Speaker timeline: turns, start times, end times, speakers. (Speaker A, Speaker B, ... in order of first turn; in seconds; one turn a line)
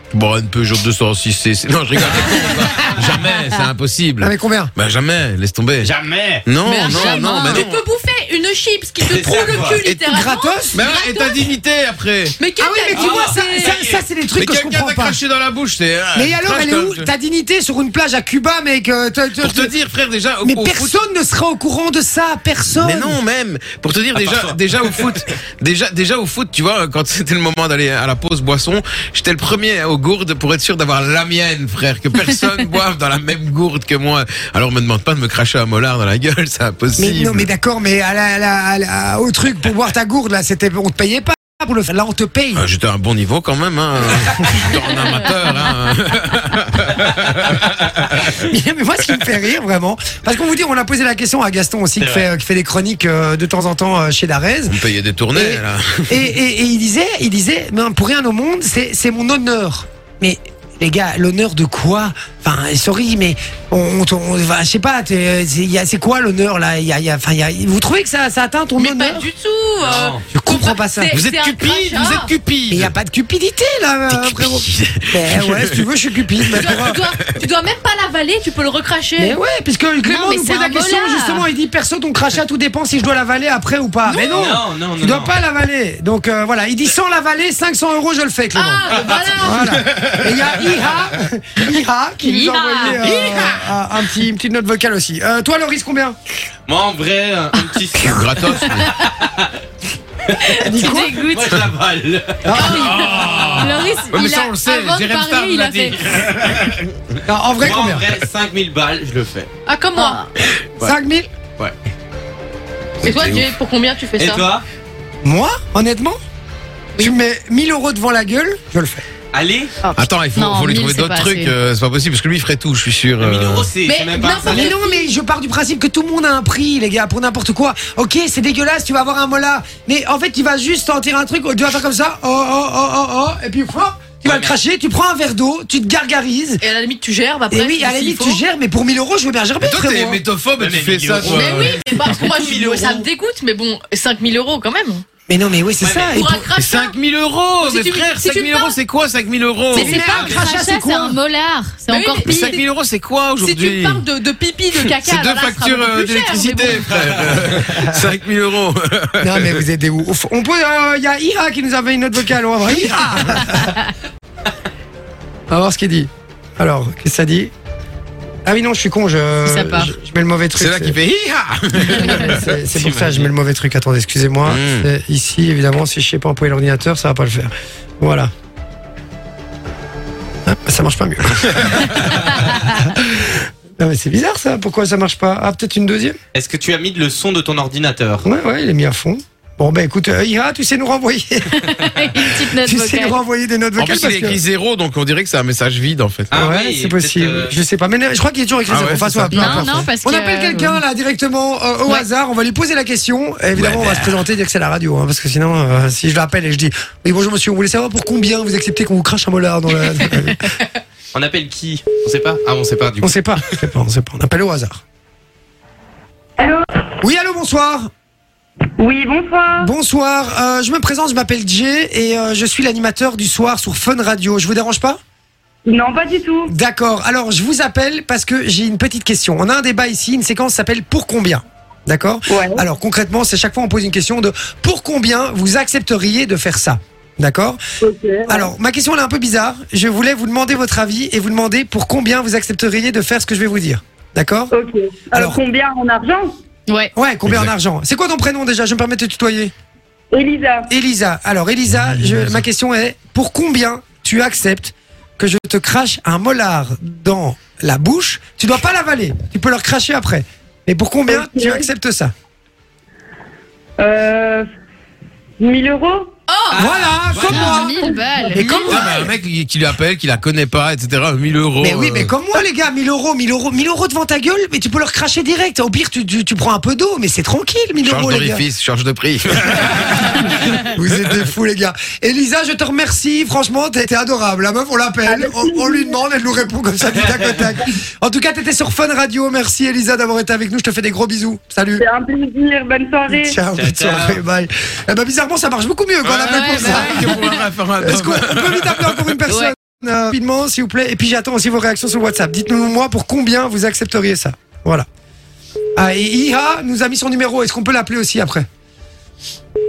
Speaker A: 0.1-7.8
Speaker B: 4.2-4.7
Speaker C: 5.8-6.5
Speaker D: 6.6-11.5
Speaker C: 9.0-9.9
Speaker B: 9.2-10.8
Speaker A: 10.7-12.3
Speaker D: 12.4-13.8
Speaker B: 12.6-15.2
Speaker C: 12.9-14.1
Speaker A: 14.3-17.1
Speaker B: 16.1-19.7
Speaker A: 19.4-21.0
Speaker B: 20.4-23.2
Speaker A: 22.7-37.5
Speaker C: 24.1-25.2
Speaker B: 37.0-42.6
Speaker A: 42.5-48.2
Speaker B: 48.2-54.8
Speaker C: 52.0-52.3
Speaker A: 54.7-56.3
Speaker B: 55.3-69.3
Speaker D: 68.8-72.3
Speaker C: 69.8-70.2
Speaker B: 70.3-71.1
Speaker A: 71.1-72.9
Speaker B: 72.7-77.0
Speaker A: 74.1-75.9
Speaker A: 76.4-77.4
Speaker D: 76.5-79.4
Speaker B: 79.2-96.2
Speaker E: 80.0-81.5
Speaker C: 84.1-85.4
Speaker D: 84.2-84.4
Speaker D: 88.5-89.8
Speaker A: 89.9-90.7
Speaker E: 92.2-93.0
Speaker A: 92.8-93.8
Speaker C: 96.7-98.2
Speaker A: 97.9-99.0
Speaker E: 98.6-99.0
Speaker C: 99.0-99.5
Speaker C: 100.3-104.0
Speaker B: 100.4-101.2
Speaker E: 100.7-101.7
Speaker B: 102.4-103.1
Speaker A: 102.5-106.8
Speaker E: 102.7-106.0
Speaker C: 106.1-106.7
Speaker B: 107.2-108.1
Speaker C: 107.6-109.5
Speaker D: 109.7-110.2
Speaker E: 109.9-110.3
Speaker B: 110.8-111.3
Speaker A: 113.0-113.5
Speaker D: 113.0-114.5
Speaker C: 114.2-114.6
Speaker B: 115.2-116.2
Speaker B: 117.0-119.0
Speaker C: 119.3-119.7
Speaker E: 119.8-121.5
Speaker A: 119.9-123.7
Speaker C: 123.2-124.7
Speaker D: 123.8-125.1
Speaker B: 124.5-136.6
Speaker C: 134.2-134.6
Speaker D: 136.6-138.4
Speaker B: 137.5-140.2
Speaker A: 139.6-141.8
Speaker C: 140.6-143.1
Speaker D: 141.2-145.0
Speaker B: 145.3-146.5
Speaker C: 145.8-146.2
Speaker D: 146.1-146.9
Speaker A: 146.5-150.0
Speaker D: 147.6-148.8
Speaker E: 149.7-152.6
Speaker B: 149.7-151.2
Speaker D: 151.9-152.6
Speaker A: 152.2-154.0
Speaker D: 153.4-157.0
Speaker A: 154.7-159.7
Speaker C: 156.8-157.6
Speaker B: 157.6-158.0
Speaker B: 159.2-163.8
Speaker B: 165.5-167.5
Speaker B: 168.4-171.0
Speaker E: 169.4-169.9
Speaker A: 170.5-172.7
Speaker B: 171.9-178.3
Speaker C: 172.8-173.2
Speaker A: 174.4-174.9
Speaker B: 180.4-186.2
Speaker C: 186.3-188.2
Speaker B: 188.2-194.4
Speaker E: 191.5-193.2
Speaker A: 193.8-196.3
Speaker C: 196.3-197.6
Speaker B: 196.3-210.6
Speaker A: 198.7-199.9
Speaker E: 199.3-200.8
Speaker A: 203.5-204.2
Speaker C: 211.1-213.3
Speaker B: 213.0-214.8
Speaker F: 216.4-216.7
Speaker B: 217.0-217.9
Speaker F: 218.8-219.7
Speaker B: 219.6-225.0
Speaker F: 225.7-226.5
Speaker B: 226.5-237.6
Speaker F: 232.3-232.6
Speaker F: 237.8-238.5
Speaker B: 238.3-244.5
Speaker F: 244.5-246.3
Speaker B: 245.1-245.4
Speaker B: 246.9-249.5
Speaker A: 247.2-247.5
Speaker F: 250.1-250.7
Speaker B: 250.7-262.1
Speaker A: 251.8-252.4
Speaker F: 261.1-261.6
Speaker F: 263.8-264.4
Speaker F: 265.4-266.1
Speaker D: 266.3-266.7
Speaker C: 266.5-267.6
Speaker B: 266.5-269.1
Speaker F: 267.2-268.8
Speaker E: 267.3-268.7
Speaker A: 268.6-272.1
Speaker B: 271.6-278.4
Speaker A: 277.8-280.2
Speaker B: 279.6-291.8
Speaker F: 285.1-286.0
Speaker F: 291.8-293.3
Speaker B: 293.1-304.9
Speaker C: 293.5-294.2
Speaker A: 296.0-299.1
Speaker E: 296.2-297.1
Speaker E: 299.3-299.5
Speaker B: 305.8-308.4